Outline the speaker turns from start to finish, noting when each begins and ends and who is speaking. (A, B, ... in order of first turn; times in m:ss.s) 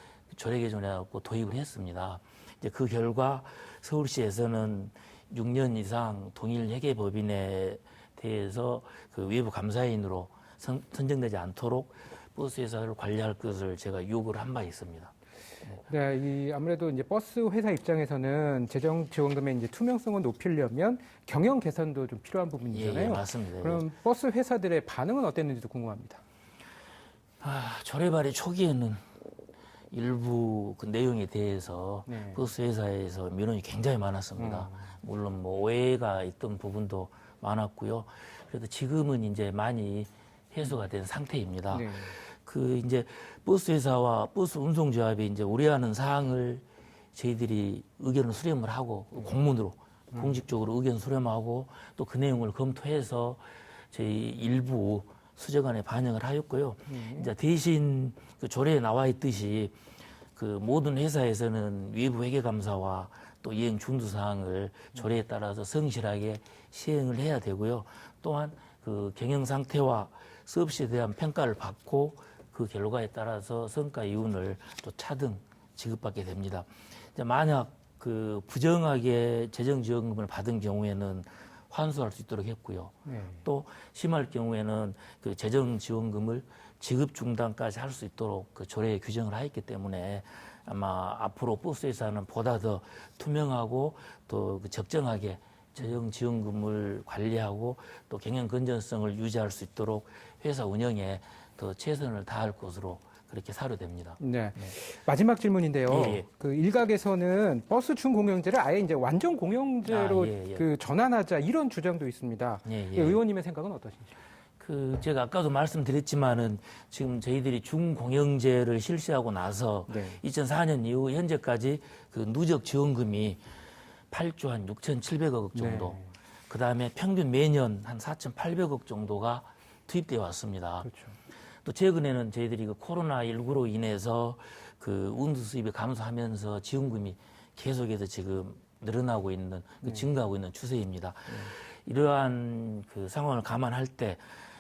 0:00.3-0:15.1 A
0:15.8-0:26.2 B
0:22.7-0:23.8 A
0:27.4-0:29.0 A
0:29.9-0:59.7 A
0:32.1-0:32.4 B
0:34.4-0:35.0 B
0:41.7-0:42.2 B
0:50.1-0:50.4 B
0:56.9-0:57.3 B
1:00.4-1:44.7 A
1:23.1-1:23.4 B
1:44.2-1:54.1 B
1:45.9-1:46.3 A
1:49.8-1:50.6 A
1:52.7-1:53.2 A
1:54.6-2:03.4 A
1:59.9-2:00.2 B
2:04.1-2:10.9 A
2:05.6-2:06.1 B
2:10.8-2:11.2 B
2:11.6-2:24.2 A